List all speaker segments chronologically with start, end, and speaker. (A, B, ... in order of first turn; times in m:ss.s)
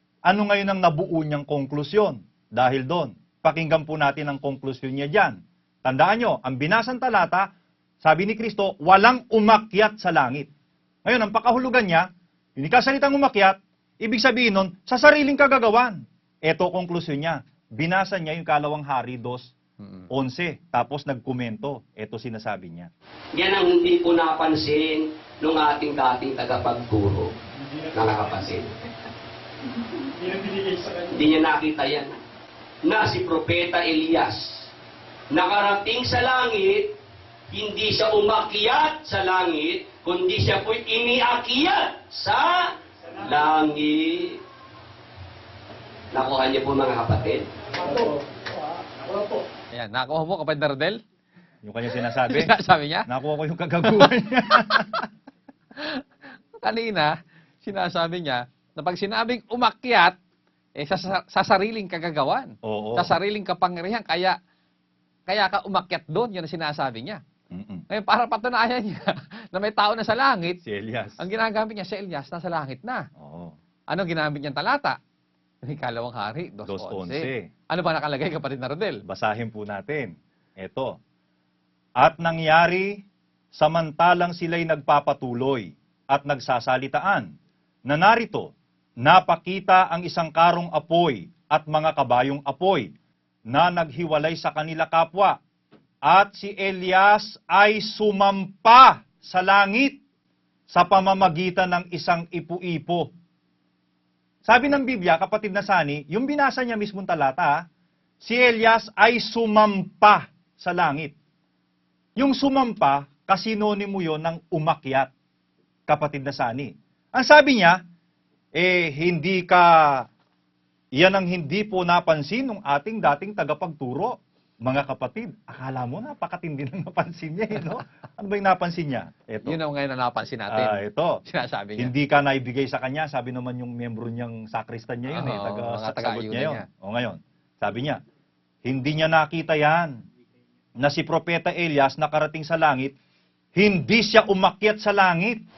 0:00.3-0:07.5 A
0:08.0-0:10.5 A
0:11.0-0:19.5 A
0:19.8-0:20.1 B
0:20.1-0:22.9 A
0:23.3-0:27.3 C
0:27.9-0:28.7 C
0:30.9-0:32.2 C
0:32.8-0:34.7 C
0:35.3-0:36.9 C
0:37.5-0:44.4 C
0:46.1-0:47.9 C
0:49.7-0:51.0 B
0:51.6-0:52.5 A
0:52.1-0:53.1 B
0:53.1-0:55.1 A
0:53.8-0:55.0 B
0:55.8-0:56.0 B
0:56.6-1:00.2 B
1:00.8-1:04.4 B
1:02.6-1:03.1 A
1:05.3-1:07.2 B
1:07.5-1:07.8 A
1:07.9-1:10.6 B
1:10.6-1:11.2 A
1:11.2-1:13.1 B
1:13.2-1:13.6 A
1:13.9-1:15.0 B
1:15.6-1:19.0 B
1:16.7-1:17.5 A
1:19.1-1:21.0 A
1:22.0-1:23.0 A
1:23.5-1:27.3 A
1:27.9-1:32.9 A
1:33.5-1:35.4 A
1:36.1-1:40.0 A
1:40.7-1:43.1 A
1:44.5-1:47.6 A
1:48.2-1:51.2 A
1:52.2-1:55.1 A
1:55.9-1:57.8 A
1:58.6-2:00.1 A
2:01.0-2:09.6 A
2:09.4-2:11.9 B
2:10.5-2:11.2 A
2:11.8-2:18.0 A
2:15.1-2:16.6 B
2:18.7-2:20.0 A
2:20.8-2:23.0 A
2:23.6-2:25.4 A